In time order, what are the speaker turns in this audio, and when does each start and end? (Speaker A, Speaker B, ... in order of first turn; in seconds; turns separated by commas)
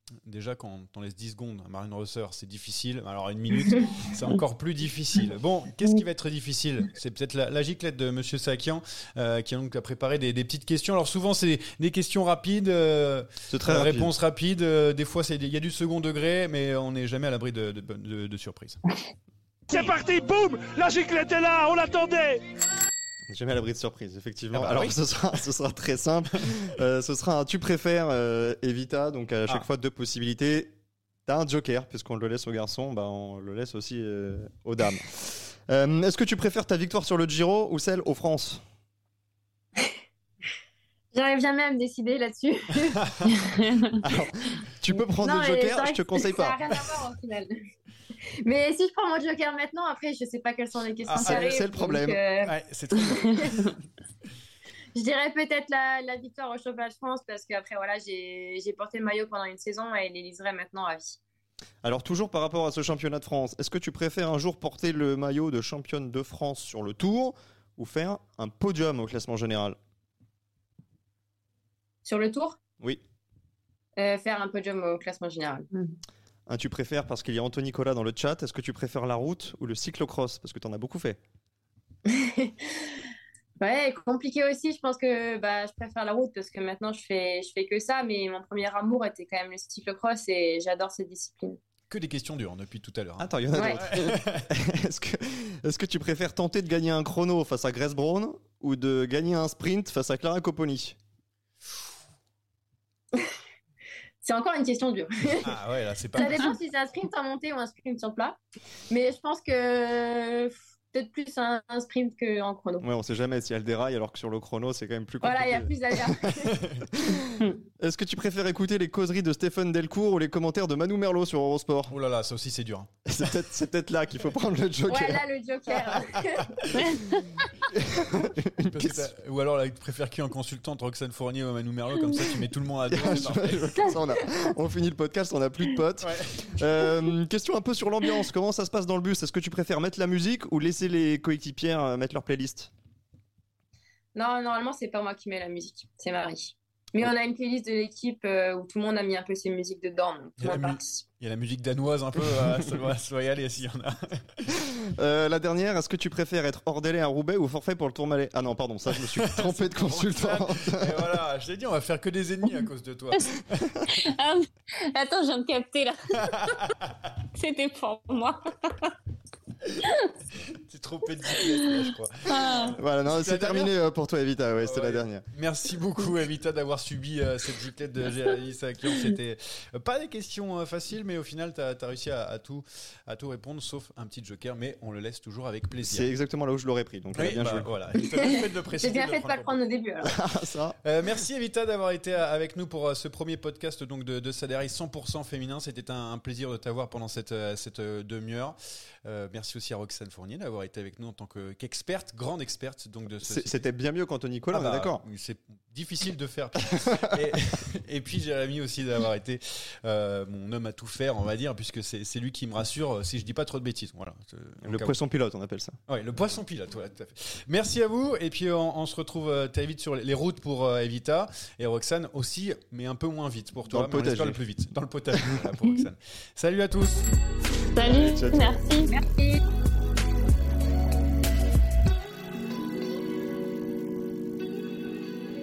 Speaker A: 0.2-18.8, Speaker B: 13.5-14.1, Speaker C: 19.7-22.4, Speaker B: 23.3-30.7, Speaker A: 24.5-25.0, Speaker B: 31.3-38.6, Speaker D: 41.1-43.0, Speaker E: 43.3-44.0, Speaker B: 44.0-46.6, Speaker D: 45.2-47.5, Speaker D: 48.4-52.5, Speaker A: 51.1-51.4, Speaker B: 51.1-52.2, Speaker A: 52.4-53.8, Speaker D: 55.0-61.2, Speaker B: 61.8-69.8, Speaker D: 72.0-72.6, Speaker D: 74.0-75.7, Speaker B: 76.5-81.2, Speaker D: 82.1-83.0, Speaker D: 83.6-91.6, Speaker A: 91.9-94.4, Speaker B: 93.2-101.0, Speaker D: 104.2-105.6, Speaker A: 105.4-106.5, Speaker D: 106.1-108.4, Speaker D: 108.9-112.9, Speaker B: 112.8-122.0, Speaker D: 115.2-116.5, Speaker A: 121.9-123.3, Speaker B: 123.1-125.2, Speaker D: 124.9-126.5, Speaker E: 126.8-127.1, Speaker B: 127.7-129.1, Speaker A: 128.7-133.9, Speaker B: 132.9-142.7, Speaker A: 136.0-136.6, Speaker D: 144.2-151.0, Speaker A: 150.4-154.4, Speaker B: 154.8-161.1, Speaker A: 159.0-163.8, Speaker E: 163.9-166.5, Speaker A: 166.4-166.8, Speaker E: 167.3-168.9, Speaker A: 170.5-173.7, Speaker E: 172.3-172.8, Speaker B: 172.7-175.2, Speaker A: 174.6-186.1, Speaker B: 185.8-187.7, Speaker A: 187.1-189.6, Speaker D: 188.2-190.1, Speaker B: 190.0-190.8, Speaker A: 190.8-203.6, Speaker B: 203.2-205.0, Speaker A: 204.5-214.9, Speaker B: 206.9-207.2, Speaker B: 214.6-215.8, Speaker A: 215.9-227.1, Speaker B: 223.7-224.4, Speaker E: 227.8-228.9, Speaker B: 227.9-228.6, Speaker D: 228.9-229.4